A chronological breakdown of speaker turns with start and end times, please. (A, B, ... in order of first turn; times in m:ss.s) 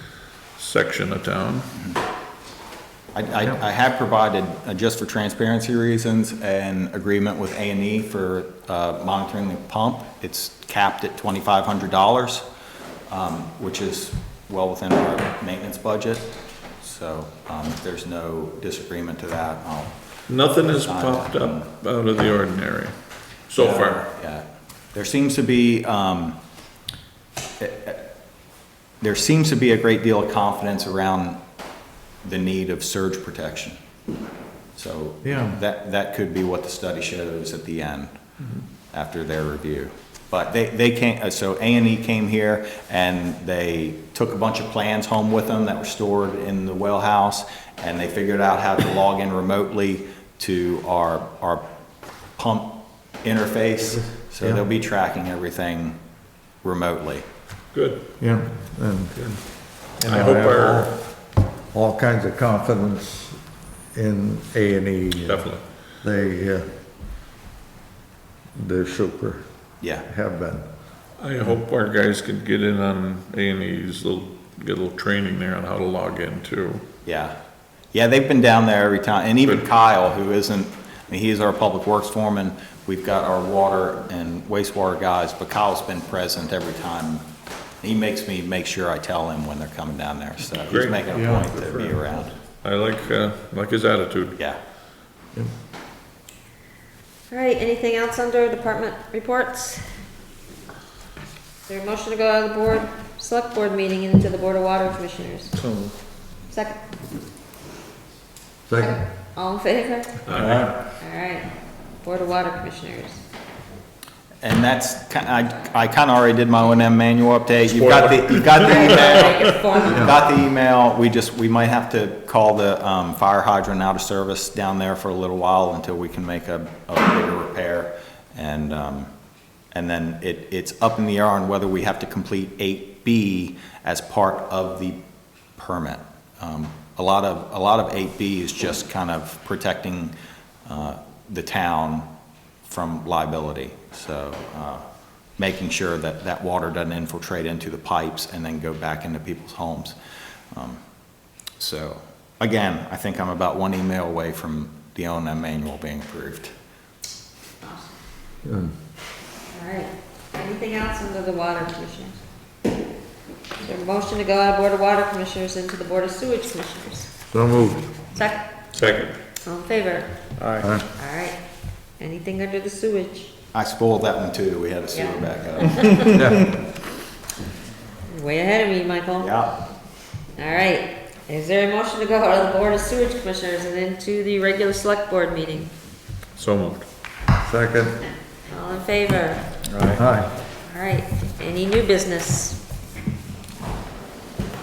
0:00.6-0:01.7 A
0:03.1-0:12.4 B
0:13.1-0:20.0 B
0:20.3-0:23.0 A
0:20.6-0:21.7 B
0:23.5-0:24.0 A
0:23.6-0:26.4 B
0:27.6-0:28.0 B
0:29.0-0:31.4 B
0:32.2-0:33.8 B
0:34.8-0:38.2 B
0:35.2-0:35.6 C
0:38.9-0:51.6 B
0:52.4-0:56.0 B
0:54.0-0:54.6 C
0:56.6-0:57.2 B
0:57.7-0:58.0 A
0:58.2-0:59.2 C
0:59.2-0:59.4 A
1:00.0-1:01.0 A
1:00.0-1:00.9 C
1:01.7-1:03.4 C
1:03.9-1:05.5 C
1:05.2-1:05.6 A
1:06.0-1:06.7 C
1:08.6-1:09.4 C
1:09.8-1:10.1 B
1:10.0-1:10.7 C
1:11.2-1:16.8 A
1:17.0-1:17.4 B
1:17.9-1:27.3 B
1:27.8-1:32.3 B
1:30.7-1:34.4 A
1:31.1-1:31.5 C
1:37.3-1:40.0 D
1:41.7-1:45.5 D
1:45.6-1:45.9 A
1:46.5-1:46.8 D
1:48.7-1:49.0 C
1:48.8-1:50.2 D
1:50.3-1:50.7 A
1:50.4-1:50.8 C
1:51.0-1:53.2 D
1:54.4-2:09.1 B
1:57.7-1:59.4 A
1:58.6-2:00.2 D
2:09.7-2:15.0 B
2:15.6-2:20.2 B
2:20.7-2:22.1 B
2:22.7-2:24.8 B
2:25.4-2:30.0 B
2:30.5-2:30.8 B
2:31.6-2:36.5 B
2:37.6-2:38.0 D
2:38.4-2:38.7 C
2:39.5-2:42.2 D
2:43.6-2:47.1 D
2:47.3-2:47.9 C
2:48.1-2:48.5 D
2:48.7-2:49.2 A
2:49.4-2:50.2 D
2:50.4-2:50.7 A
2:50.6-2:50.9 C
2:50.9-2:51.4 D
2:52.0-2:53.3 D
2:53.5-2:56.2 B
2:54.9-2:56.2 D
2:56.1-2:56.5 C
2:58.1-2:59.3 D
2:59.2-2:59.6 B
3:00.4-3:05.7 D
3:06.4-3:06.9 A
3:07.4-3:08.0 C
3:08.5-3:09.5 D
3:10.0-3:10.3 C
3:10.6-3:12.6 D